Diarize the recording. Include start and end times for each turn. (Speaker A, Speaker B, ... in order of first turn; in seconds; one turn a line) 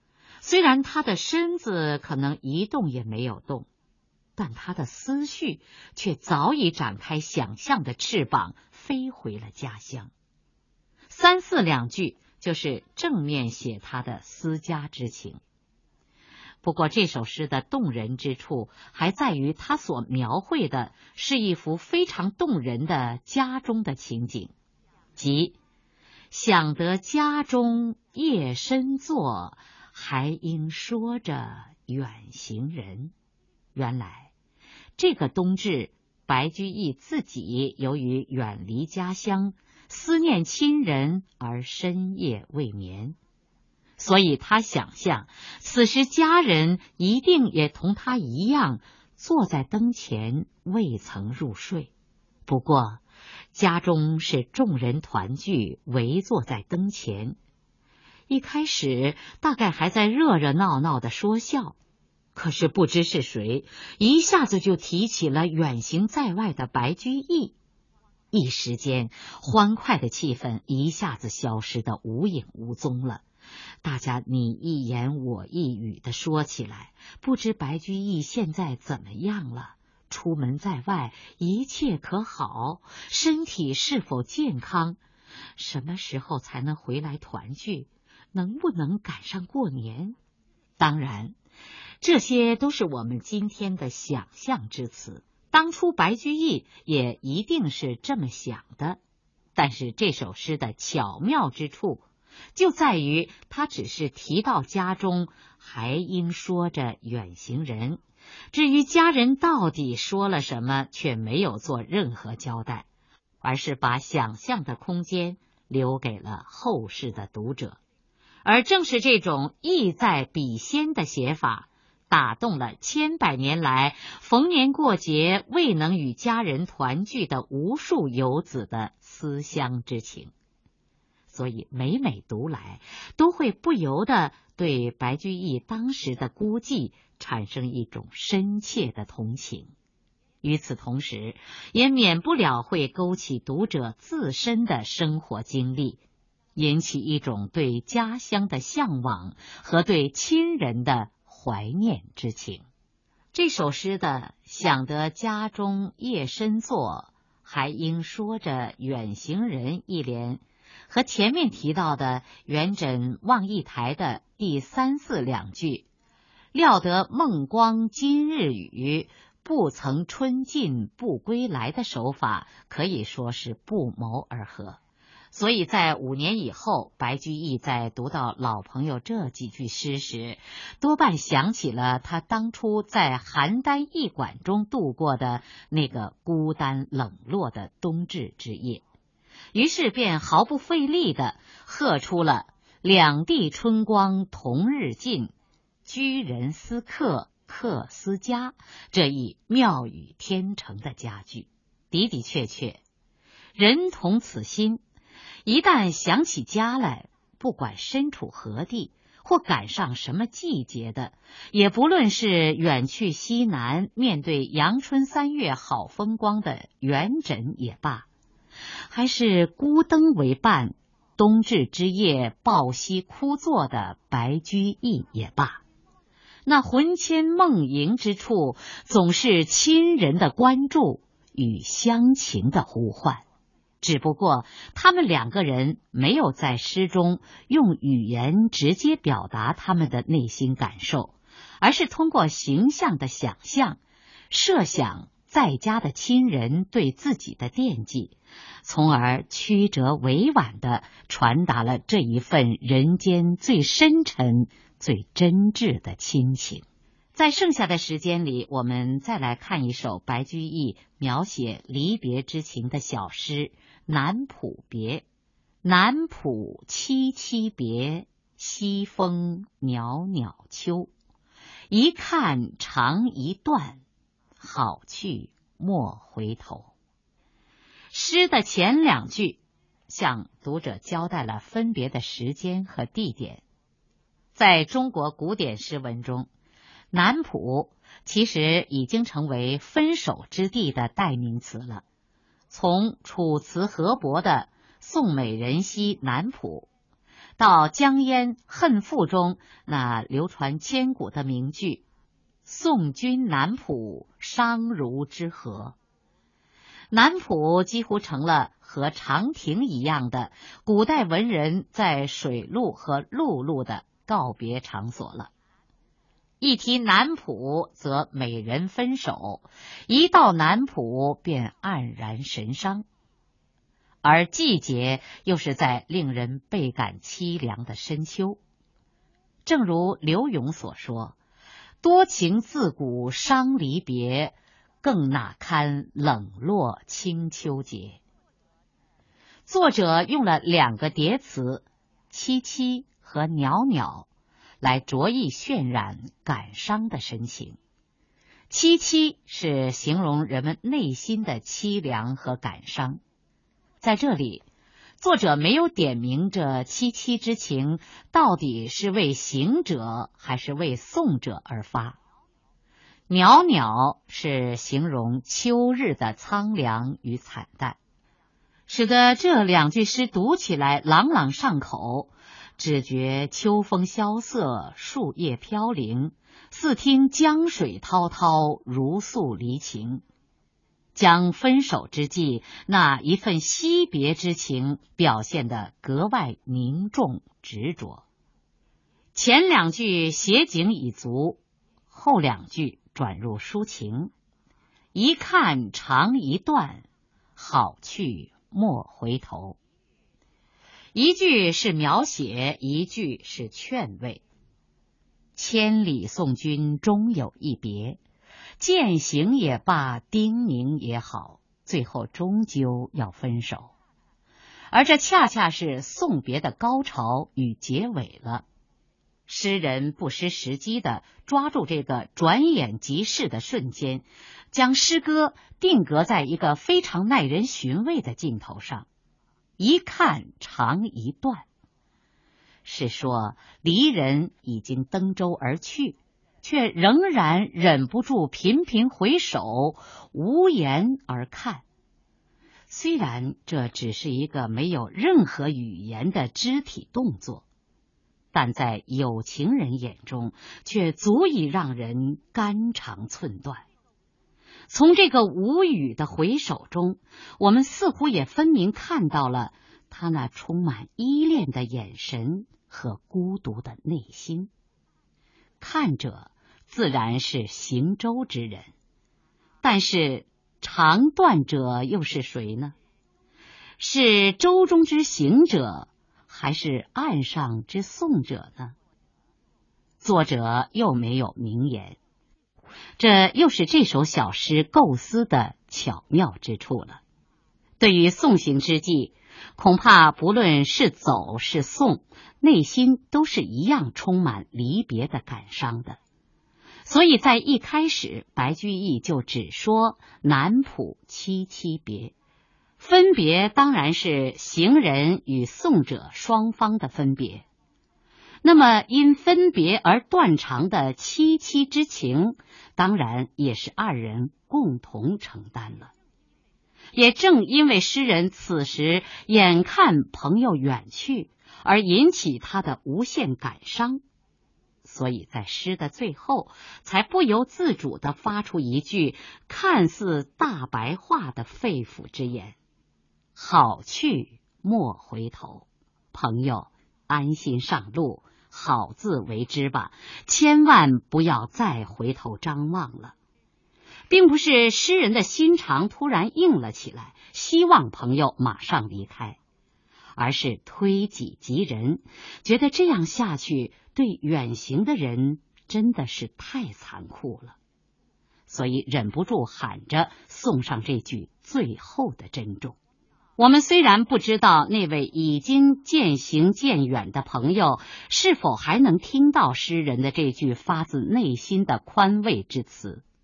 Speaker A: 0.4-3.7
Speaker A: 4.4-10.1
Speaker A: 11.1-15.4
Speaker A: 16.6-24.5
Speaker A: 25.2-25.6
Speaker A: 26.3-33.1
Speaker A: 33.8-34.3
Speaker A: 35.0-43.2
Speaker A: 44.0-51.9
Speaker A: 52.5-53.0
Speaker A: 53.5-57.4
Speaker A: 58.3-61.8
Speaker A: 62.3-67.5
Speaker A: 68.3-73.2
Speaker A: 73.8-85.0
Speaker A: 85.6-90.2
Speaker A: 90.8-91.3
Speaker A: 92.0-99.0
Speaker A: 99.5-102.0
Speaker A: 102.5-108.0
Speaker A: 108.5-112.8
Speaker A: 113.4-117.8
Speaker A: 118.4-130.3
Speaker A: 131.3-139.7
Speaker A: 140.4-146.0
Speaker A: 146.5-152.6
Speaker A: 153.3-165.8
Speaker A: 166.5-174.8
Speaker A: 175.3-188.8
Speaker A: 189.5-195.3
Speaker A: 195.8-202.8
Speaker A: 203.6-204.8
Speaker A: 205.4-218.1
Speaker A: 218.9-225.6
Speaker A: 226.4-233.2
Speaker A: 233.8-243.8
Speaker A: 244.3-256.6
Speaker A: 257.1-265.0
Speaker A: 265.6-270.9
Speaker A: 271.7-273.8
Speaker A: 274.4-276.7
Speaker A: 277.9-283.4
Speaker A: 284.3-286.3
Speaker A: 286.9-291.8
Speaker A: 292.5-296.7
Speaker A: 297.4-301.8
Speaker A: 302.4-305.8
Speaker A: 306.9-315.3
Speaker A: 316.4-322.8
Speaker A: 324.0-328.4
Speaker A: 329.4-331.1
Speaker A: 331.8-338.0
Speaker A: 339.5-344.1
Speaker A: 344.6-347.6
Speaker A: 348.5-353.0
Speaker A: 353.8-354.4
Speaker A: 355.0-362.0
Speaker A: 363.1-367.8
Speaker A: 368.7-380.0
Speaker A: 380.9-388.0
Speaker A: 389.1-394.1
Speaker A: 394.9-399.6
Speaker A: 400.9-404.2
Speaker A: 405.4-408.0
Speaker A: 408.6-413.7
Speaker A: 414.7-418.4
Speaker A: 419.3-428.9
Speaker A: 429.6-431.4
Speaker A: 432.6-441.6
Speaker A: 442.7-447.4
Speaker A: 448.3-453.6
Speaker A: 454.7-464.5
Speaker A: 465.6-468.7
Speaker A: 469.6-472.7
Speaker A: 473.8-478.7
Speaker A: 480.0-482.0
Speaker A: 483.0-487.0
Speaker A: 487.8-496.0
Speaker A: 496.9-502.1
Speaker A: 502.8-507.4
Speaker A: 508.4-515.9
Speaker A: 516.9-524.0
Speaker A: 524.8-532.6
Speaker A: 533.4-543.1
Speaker A: 544.1-549.4
Speaker A: 550.1-557.6
Speaker A: 558.5-562.8
Speaker A: 563.4-573.0